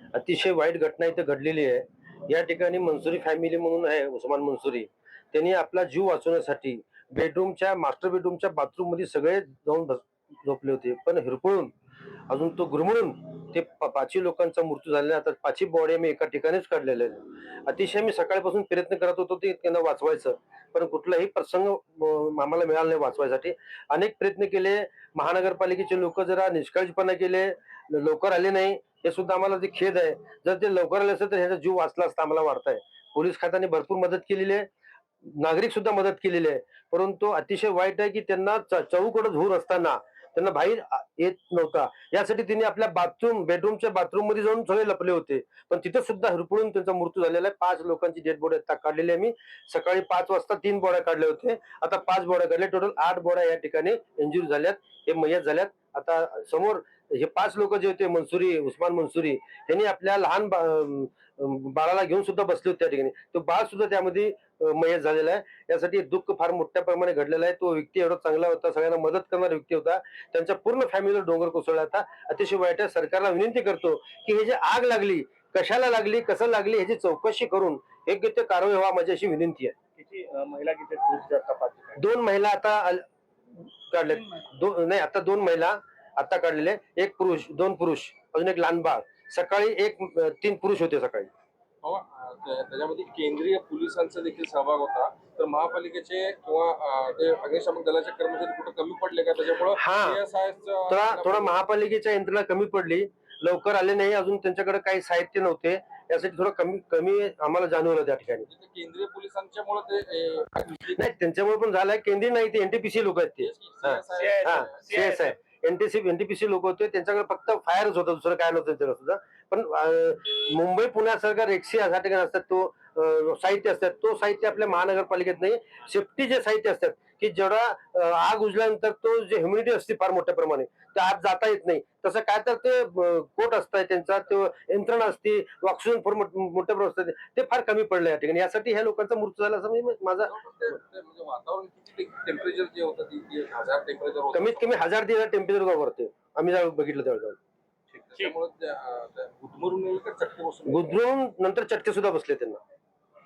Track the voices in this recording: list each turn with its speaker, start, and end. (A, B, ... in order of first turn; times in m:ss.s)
0:00.1-0:11.7 A
0:12.3-0:34.7 A
0:35.2-1:19.7 A
1:20.0-1:22.0 B
1:22.0-1:23.0 A
1:23.9-1:31.3 A
1:31.8-1:41.6 C
1:39.8-1:40.2 A
1:40.9-1:48.5 A
1:48.5-1:51.0 C
1:51.0-2:20.3 A
1:53.4-1:55.0 C
1:54.2-1:55.3 B
2:20.2-2:24.7 C
2:24.3-2:27.4 A
2:27.9-2:31.0 C
2:30.7-2:32.6 A